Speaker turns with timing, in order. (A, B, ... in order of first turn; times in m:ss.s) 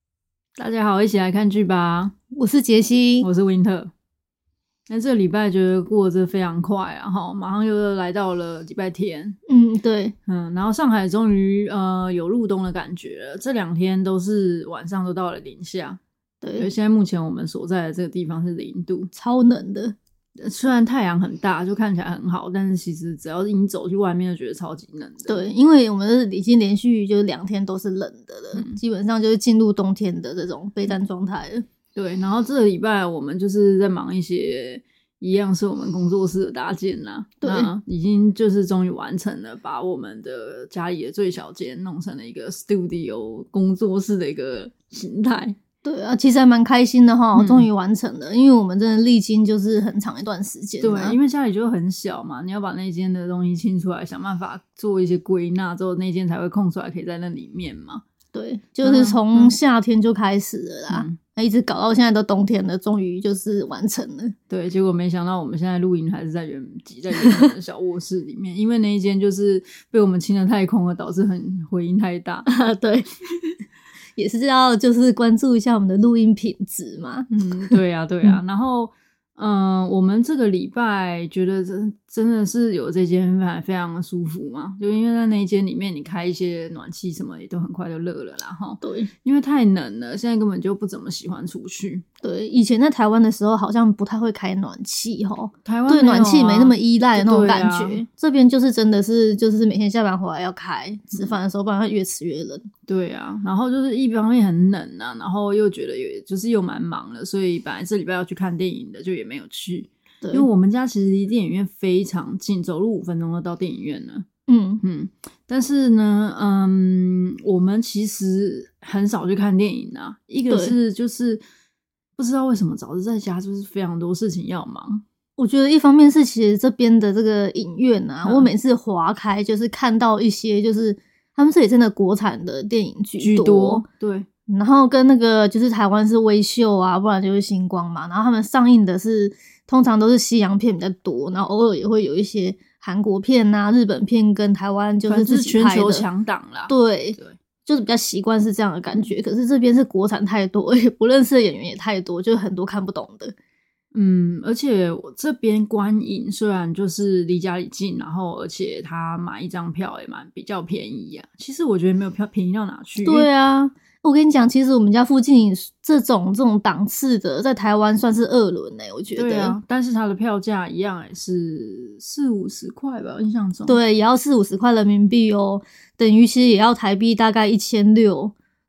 0:00.6-0:02.1 A
0:02.3-0:03.3 B
0:03.2-0:03.9 A
0:04.9-0:09.4 A
0:09.5-0:10.1 B
0:10.2-0:16.0 A
0:16.4-0:16.7 B
0:16.6-0:19.1 A
0:19.1-0:19.9 B
0:20.4-0:25.5 A
0:25.2-0:31.6 B
0:31.9-0:45.6 A
0:37.4-0:37.7 B
0:45.8-0:51.2 B
0:47.3-0:47.7 A
0:50.8-0:58.0 A
0:58.3-1:04.3 B
0:58.8-0:59.5 A
1:00.9-1:01.2 A
1:04.5-1:12.5 A
1:07.2-1:07.5 B
1:12.5-1:13.2 B
1:14.2-1:18.4 B
1:17.3-1:32.0 A
1:28.8-1:29.1 B
1:32.2-1:42.7 B
1:35.6-1:38.0 A
1:42.9-1:54.2 A
1:50.2-1:50.5 B
1:54.5-1:54.8 B
1:54.8-2:01.4 A
2:00.5-2:00.7 B
2:02.2-2:05.0 A
2:05.4-2:13.8 B
2:08.2-2:08.5 A
2:13.2-2:14.3 A
2:14.5-2:26.0 B
2:25.0-2:27.4 A
2:26.7-2:33.3 B
2:33.9-2:43.3 A
2:43.0-2:49.6 B
2:49.1-2:53.8 A
2:53.6-2:58.3 B